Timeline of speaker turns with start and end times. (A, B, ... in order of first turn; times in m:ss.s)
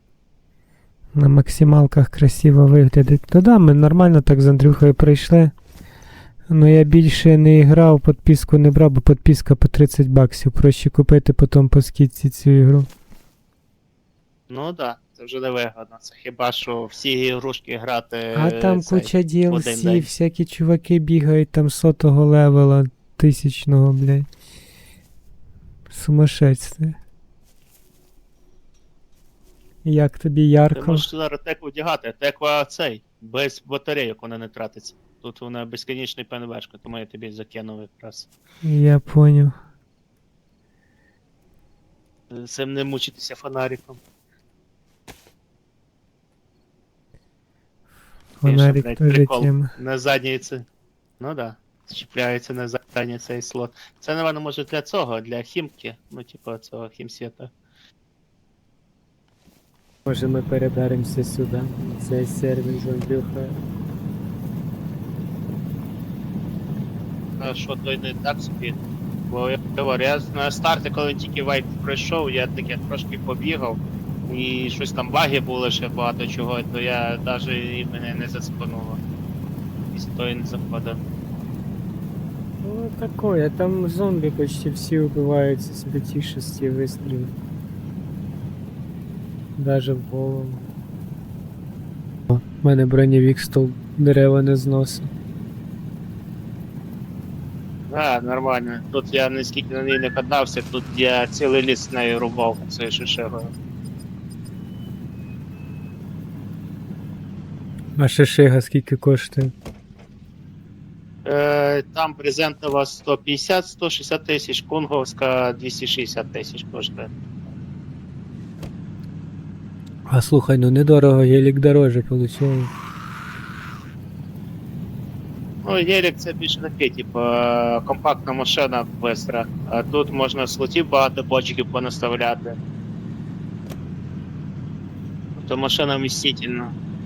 0:01.1-0:05.5 A
0:06.5-0:12.9 A
0:14.5-0:20.1 B
0:18.3-0:24.3 A
0:25.9-0:27.0 A
0:29.8-0:31.1 A
0:30.7-0:38.3 B
0:38.6-0:39.5 A
0:42.3-0:44.0 B
0:48.4-0:49.7 A
0:48.4-0:50.6 B
0:51.2-0:57.5 B
1:00.0-1:03.6 A
1:07.4-1:19.0 B
1:19.9-1:21.0 B
1:22.6-1:27.3 A
1:29.6-1:30.6 A
1:32.3-1:35.1 A
1:37.9-1:43.5 B
1:48.0-1:49.5 A
1:51.2-1:57.1 B
2:00.1-2:02.7 A
2:05.6-2:12.6 B
2:15.4-2:16.7 B